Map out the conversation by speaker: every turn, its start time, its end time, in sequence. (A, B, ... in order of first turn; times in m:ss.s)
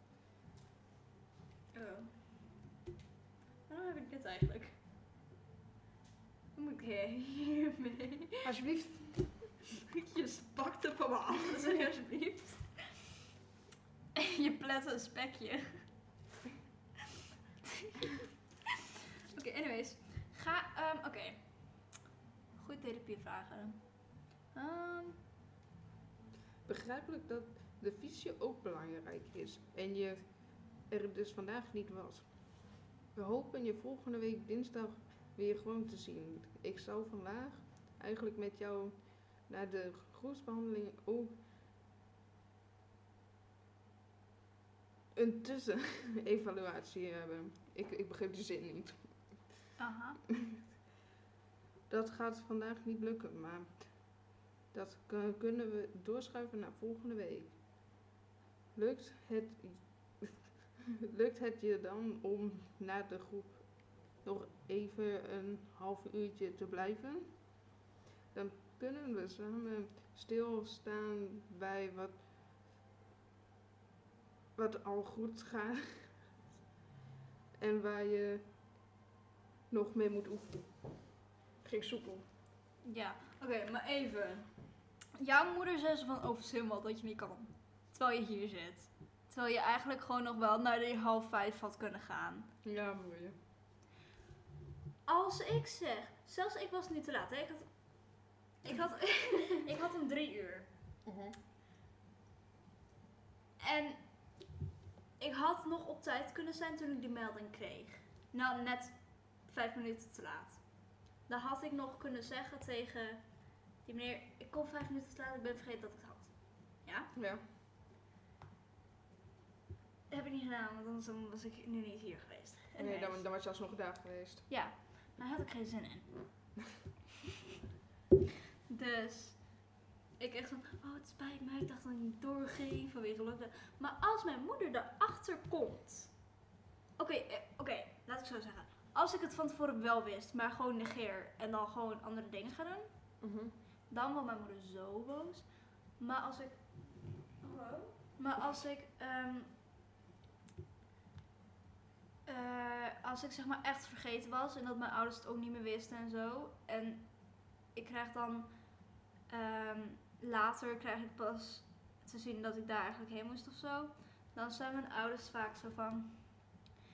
0:01.7-0:02.5 A
0:03.7-0:04.8 A
0:06.5-0:08.4 A
0:08.4-0:09.4 B
0:09.9-0:13.0 A
0:14.2-0:16.0 A
0:19.3-0:21.9 A
0:22.6-0:25.2 A
0:26.6-0:41.3 B
0:45.1-0:49.5 B
0:49.8-0:50.2 A
0:51.9-0:57.6 B
0:58.7-1:07.7 B
1:08.3-1:12.2 B
1:14.6-1:16.2 B
1:17.6-1:18.4 B
1:19.7-1:21.0 B
1:21.6-1:22.3 B
1:22.8-1:32.5 A
1:32.6-1:33.3 B
1:35.0-1:40.7 A
1:41.0-1:41.4 B
1:43.6-1:44.5 A
1:45.2-1:57.1 A
1:57.1-1:57.4 B
2:00.1-2:03.2 A
2:02.8-2:04.5 B
2:04.5-2:06.4 A
2:08.7-2:16.4 A
2:17.0-2:23.2 A
2:23.2-2:23.5 B
2:23.9-2:29.5 A
2:32.2-2:46.6 A